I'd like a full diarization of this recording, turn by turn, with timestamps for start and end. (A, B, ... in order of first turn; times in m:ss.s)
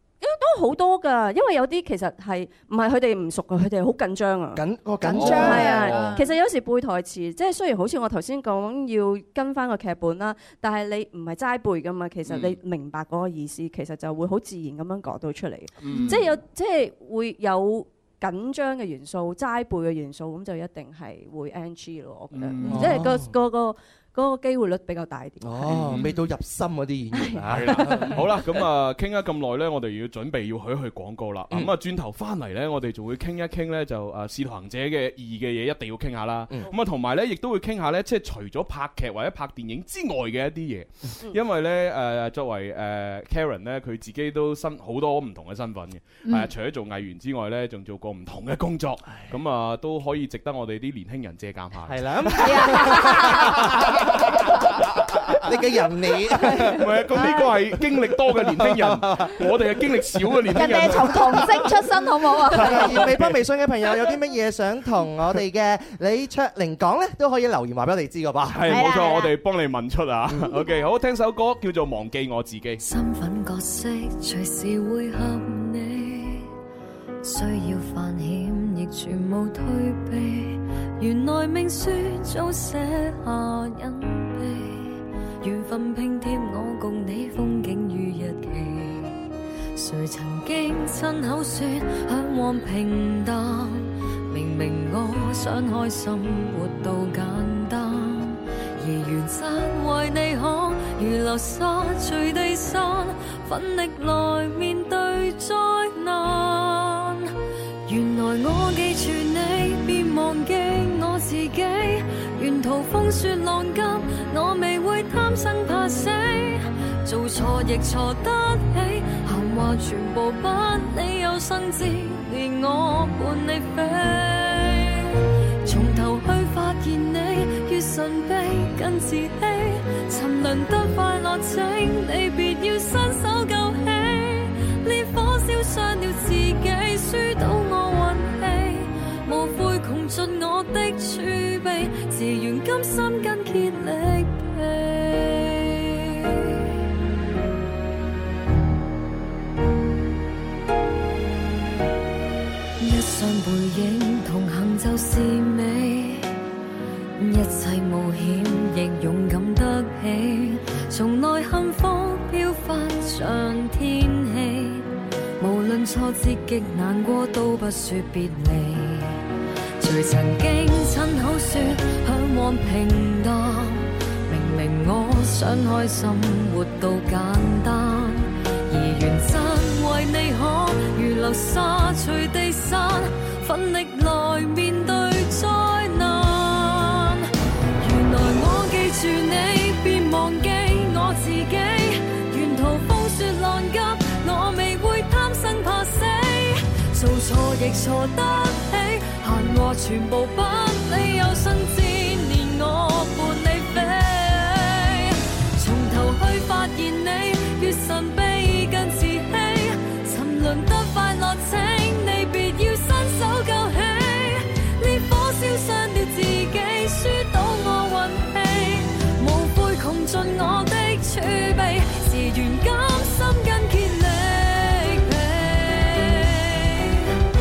0:00.2-0:04.7 A
0:04.6-0:05.8 B
0:05.0-0:06.3 C
0:05.1-0:06.2 D
0:05.2-0:25.9 A
0:12.3-0:12.6 D
0:15.8-0:16.2 D
0:15.9-0:16.3 C
0:22.3-0:23.1 D
0:22.6-0:23.3 B
0:25.4-0:28.4 B
0:25.7-0:26.2 D
0:27.1-0:28.2 A
0:27.4-0:55.4 D
0:46.2-0:46.5 C
0:51.9-0:57.0 B
0:52.4-0:53.6 C
0:56.7-1:01.6 D
0:58.2-0:59.5 B
1:00.5-1:03.1 C
1:00.7-1:01.2 B
1:02.5-1:03.4 D
1:02.5-1:08.9 B
1:08.5-1:12.8 D
1:08.7-1:09.3 C
1:12.8-1:16.5 E
1:17.2-1:29.2 E
1:29.8-1:47.3 E
1:47.9-2:05.1 E
2:05.6-2:26.6 E
2:32.8-2:36.4 E
2:37.2-2:49.2 E
2:49.8-3:07.3 E
3:07.8-3:47.1 E